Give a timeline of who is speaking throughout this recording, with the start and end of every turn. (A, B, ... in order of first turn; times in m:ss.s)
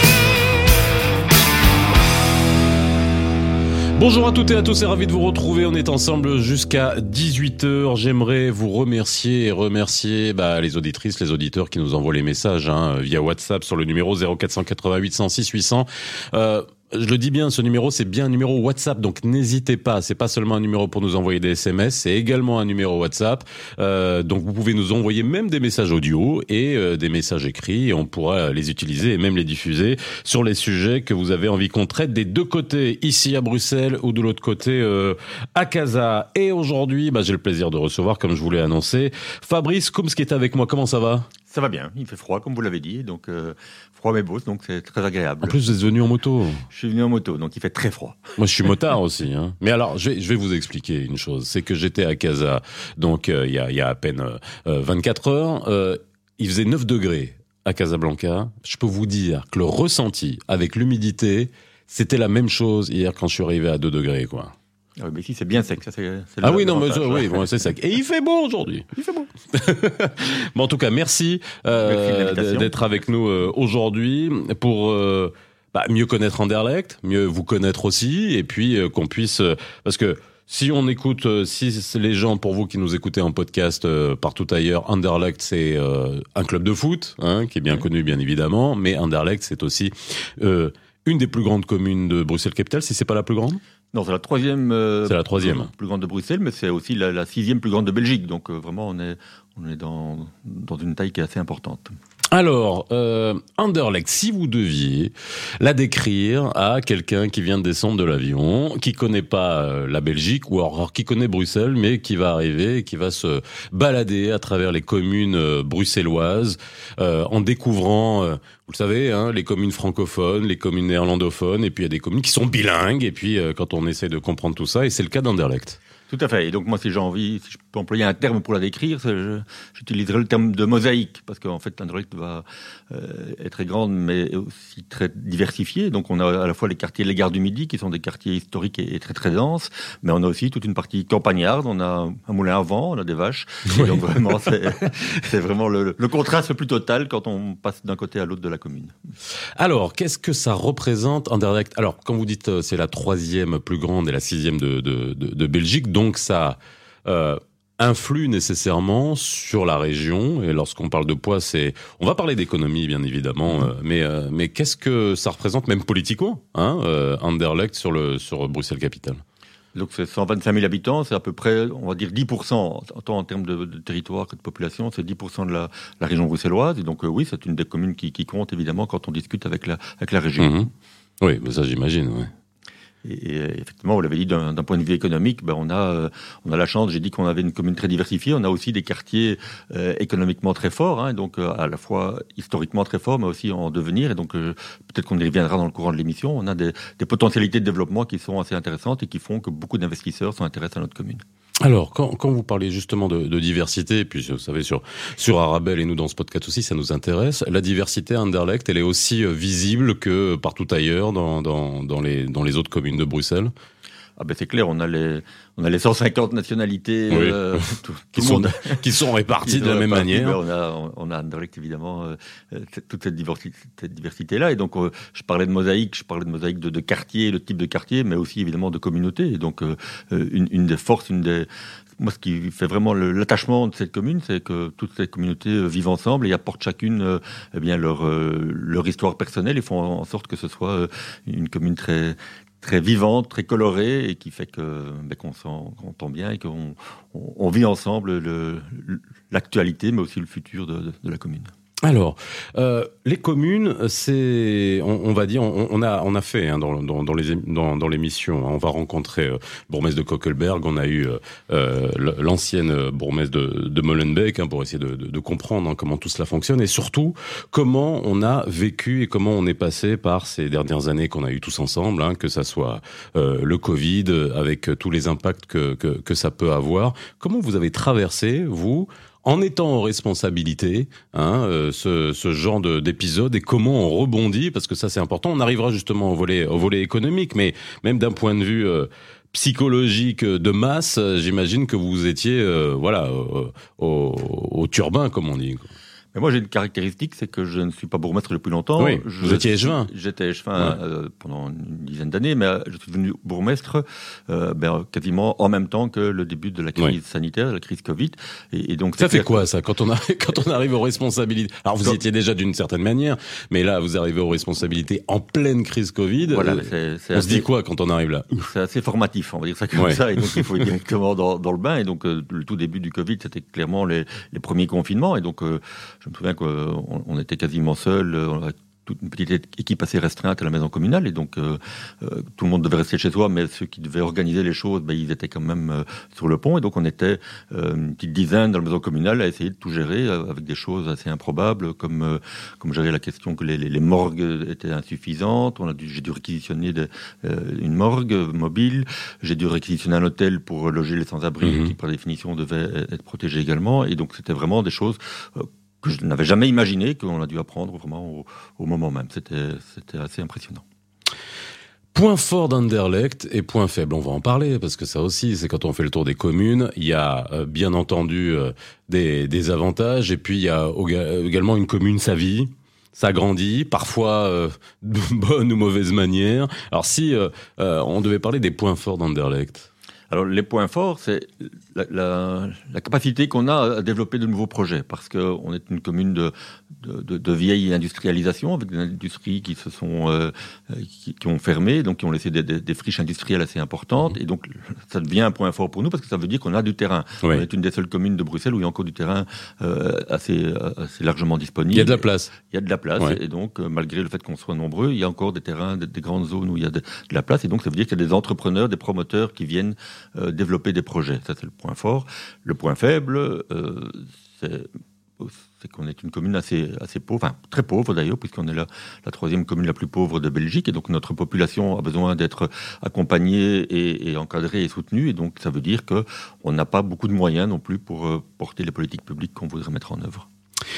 0:04.0-0:41.3 A
0:41.5-0:45.6 B
0:45.4-0:46.6 A
0:46.7-0:48.3 B
0:48.4-1:04.5 A
1:05.0-1:07.6 B
1:06.4-1:08.9 A
1:08.9-1:09.3 B
1:09.5-1:33.6 A
1:11.8-1:12.7 B
1:33.9-1:41.9 B
1:35.1-1:35.7 A
1:42.3-2:05.8 A
2:06.1-2:28.9 B
2:29.6-2:49.2 A
2:49.7-3:00.7 B
3:00.4-3:00.7 A
3:01.2-3:02.3 A
3:03.0-3:21.2 B
3:21.6-3:33.5 A
3:34.2-3:38.8 B
3:37.1-3:37.6 A
3:38.1-3:40.4 A
3:39.4-4:11.5 B
4:11.8-4:55.7 A
4:56.1-5:09.4 B
4:58.8-4:59.9 A
5:09.0-5:18.5 A
5:16.3-5:17.5 B
5:18.4-6:00.6 B
5:19.8-5:20.4 A
5:51.4-5:51.7 A
6:01.9-6:19.7 A
6:20.1-6:54.7 B
6:41.7-6:42.3 A
6:55.2-7:10.3 B